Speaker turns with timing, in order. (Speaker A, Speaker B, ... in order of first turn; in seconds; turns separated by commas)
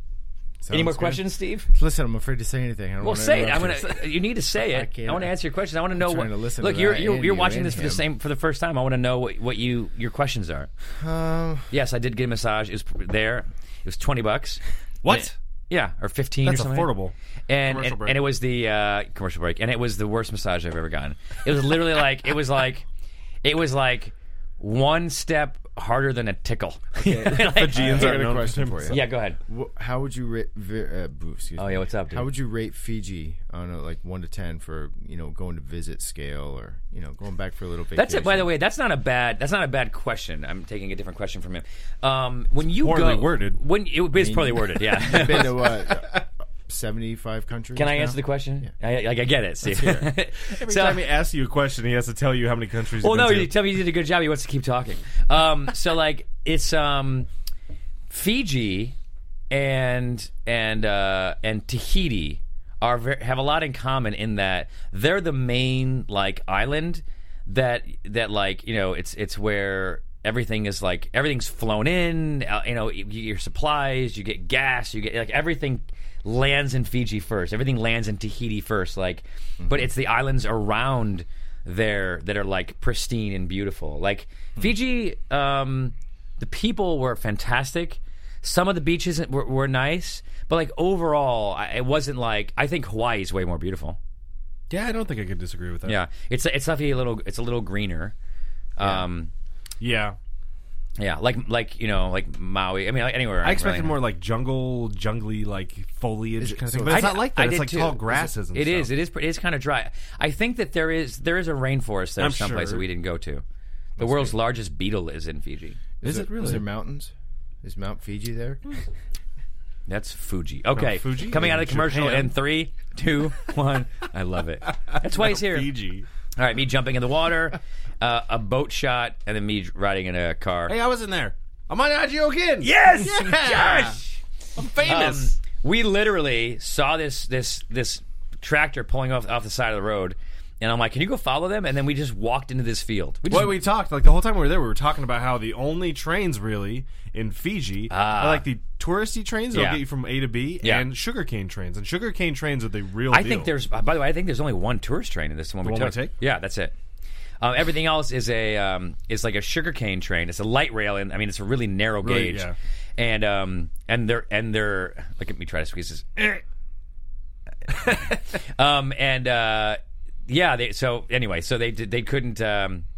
Speaker A: 0.6-4.1, Speaker B: 0.7-1.7, Speaker B: 3.0-10.7, Speaker A: 4.7-5.4, Speaker A: 5.9-8.1, Speaker A: 10.9-11.7, Speaker B: 11.7-16.9, Speaker C: 15.0-15.3, Speaker C: 16.4-18.2, Speaker B: 17.5-22.9, Speaker B: 23.4-28.2, Speaker A: 27.0-38.5, Speaker C: 27.4-29.0, Speaker B: 28.9-29.4, Speaker B: 31.6-32.3, Speaker B: 38.0-45.9, Speaker C: 42.7-43.6, Speaker A: 44.1-48.7, Speaker B: 47.8-51.0, Speaker A: 49.6-50.1, Speaker C: 50.4-53.5, Speaker B: 53.0-57.3, Speaker B: 58.1-59.0, Speaker B: 59.5-94.0, Speaker A: 79.6-79.9, Speaker C: 94.7-96.0, Speaker B: 95.9-98.2, Speaker B: 98.8-99.3, Speaker C: 99.8-100.2, Speaker B: 101.0-104.0, Speaker C: 103.4-108.9, Speaker A: 106.4-107.2, Speaker B: 106.9-113.4, Speaker C: 112.2-112.8, Speaker A: 114.0-114.4, Speaker B: 114.0-115.8, Speaker A: 116.0-117.1, Speaker C: 116.0-116.7, Speaker A: 117.6-118.6, Speaker B: 119.9-125.7, Speaker C: 120.7-122.3, Speaker C: 125.0-126.1, Speaker B: 126.4-130.7, Speaker C: 130.7-134.0, Speaker B: 132.6-134.2, Speaker C: 134.6-135.3, Speaker B: 134.8-143.6, Speaker C: 143.3-153.5, Speaker B: 147.9-148.5, Speaker B: 149.5-149.8, Speaker B: 150.6-150.9, Speaker B: 153.1-156.7, Speaker C: 155.6-156.1, Speaker B: 157.4-166.4, Speaker C: 162.0-162.6, Speaker B: 167.7-172.9